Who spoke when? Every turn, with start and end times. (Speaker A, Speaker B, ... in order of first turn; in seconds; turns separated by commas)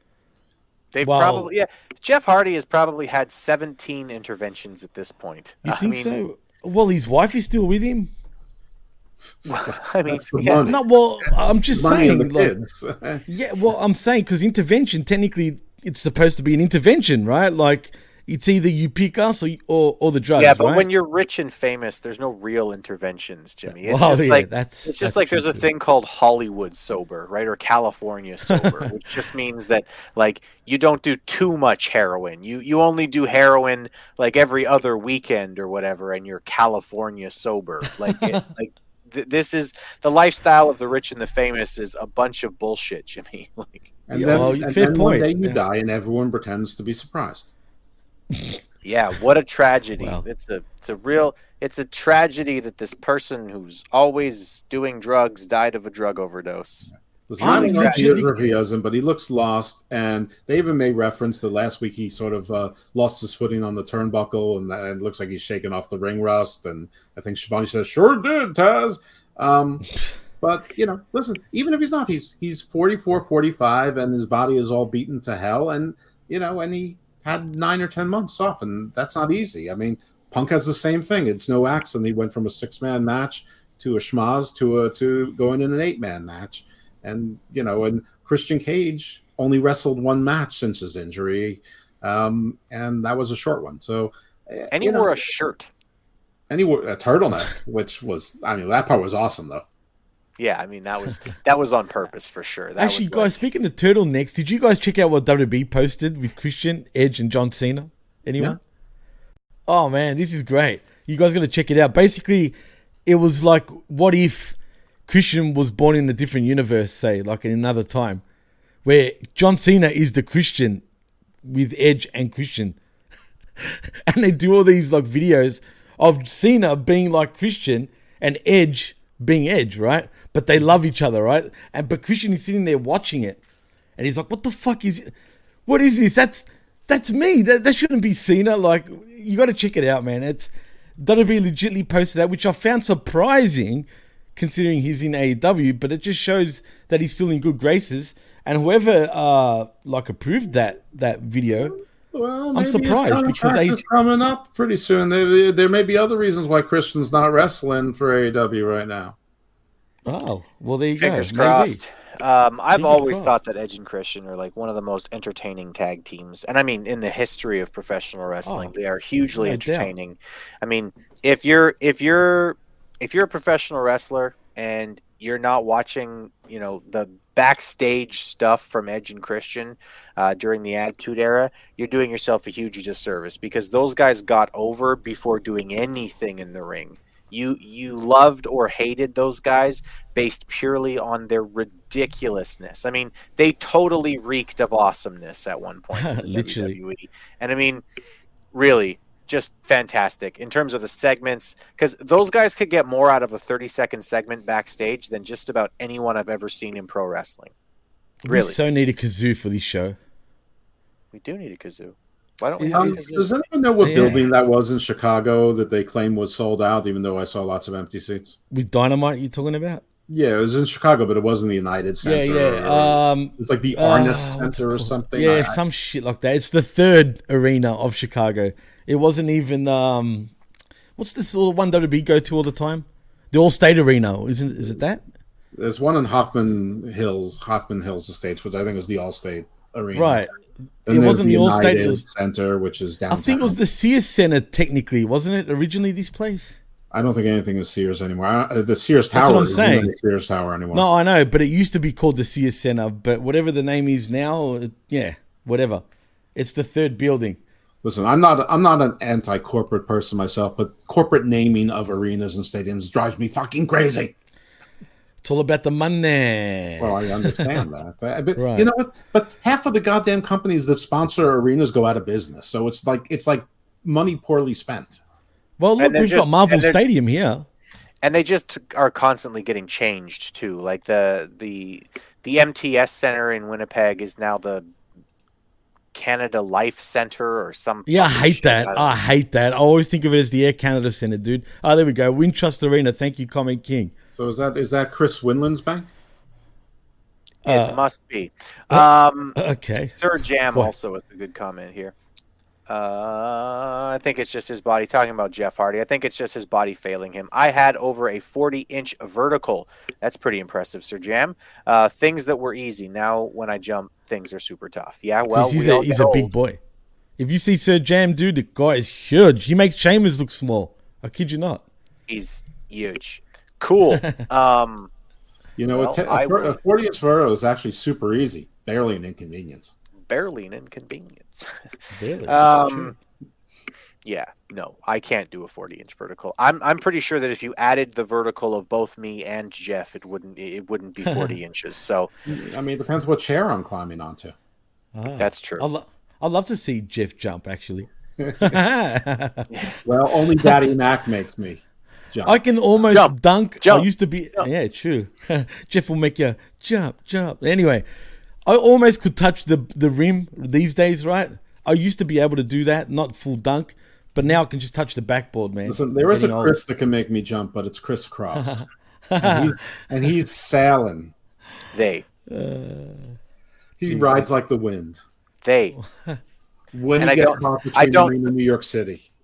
Speaker A: 0.9-6.2, Speaker B: 1.0-1.5, Speaker B: 5.7-8.1, Speaker A: 9.5-10.6, Speaker C: 9.7-10.8, Speaker B: 10.7-12.6, Speaker C: 11.7-13.2, Speaker B: 13.3-20.9, Speaker A: 20.4-43.9, Speaker B: 23.7-25.7, Speaker B: 28.5-28.9, Speaker B: 38.0-38.5, Speaker C: 44.1-47.5, Speaker B: 44.1-45.6, Speaker B: 48.3-48.6, Speaker A: 48.8-56.9, Speaker B: 50.0-50.2, Speaker C: 57.3-69.8, Speaker B: 57.4-58.5, Speaker A: 57.4-58.3, Speaker C: 70.4-95.2, Speaker A: 94.7-95.7, Speaker C: 96.5-99.6, Speaker A: 100.4-103.4, Speaker B: 102.8-108.6, Speaker B: 109.7-112.5, Speaker B: 113.1-114.6, Speaker B: 115.1-118.2, Speaker B: 118.8-120.8, Speaker B: 121.4-122.8, Speaker B: 123.6-133.4, Speaker B: 134.0-135.1, Speaker B: 135.7-151.8, Speaker C: 152.1-159.2, Speaker B: 152.5-153.8, Speaker B: 160.1-161.8, Speaker A: 161.0-197.8, Speaker B: 162.8-163.4, Speaker B: 168.4-168.7, Speaker B: 169.4-169.9, Speaker B: 195.9-196.8, Speaker A: 198.5-207.5, Speaker B: 208.2-210.0, Speaker A: 208.3-208.6, Speaker A: 211.1-213.4, Speaker B: 212.6-213.2, Speaker C: 212.7-218.4, Speaker B: 213.8-214.3, Speaker B: 218.5-219.8, Speaker C: 220.1-225.6, Speaker B: 222.0-230.3, Speaker B: 231.0-235.0, Speaker C: 235.5-240.2, Speaker B: 239.9-240.3, Speaker B: 240.9-242.0, Speaker C: 240.9-243.6, Speaker B: 243.1-246.6, Speaker C: 246.9-250.8, Speaker B: 249.1-249.9, Speaker B: 250.7-255.8, Speaker B: 256.4-257.4, Speaker C: 257.8-264.1, Speaker B: 265.2-267.6, Speaker C: 266.8-275.0, Speaker B: 268.4-268.7, Speaker B: 275.6-277.4, Speaker A: 275.8-276.8, Speaker A: 278.0-284.7, Speaker A: 285.9-288.9, Speaker B: 287.9-293.9, Speaker C: 294.1-295.9, Speaker B: 297.4-297.8, Speaker A: 297.5-299.4, Speaker B: 298.7-299.9, Speaker A: 299.9-301.9, Speaker A: 302.7-316.3, Speaker B: 315.3-316.6, Speaker B: 317.2-321.6, Speaker A: 322.1-324.9, Speaker B: 323.9-324.2, Speaker C: 325.6-329.7, Speaker A: 325.7-326.6, Speaker A: 330.1-331.5, Speaker B: 331.9-332.5, Speaker A: 332.3-332.9, Speaker C: 332.7-332.9, Speaker A: 334.1-342.1, Speaker B: 341.1-341.3, Speaker C: 342.3-344.4, Speaker B: 344.9-347.9, Speaker A: 345.2-345.6, Speaker C: 348.2-348.5, Speaker B: 348.4-349.5, Speaker C: 349.9-352.4, Speaker B: 352.2-357.9, Speaker A: 352.9-354.5, Speaker B: 358.5-366.6, Speaker C: 365.7-368.6, Speaker B: 368.4-370.1, Speaker C: 369.2-371.1, Speaker A: 371.7-372.1, Speaker B: 372.3-373.1, Speaker C: 373.8-375.0, Speaker B: 373.9-374.3, Speaker A: 375.4-375.8, Speaker C: 376.7-379.1, Speaker A: 377.0-378.1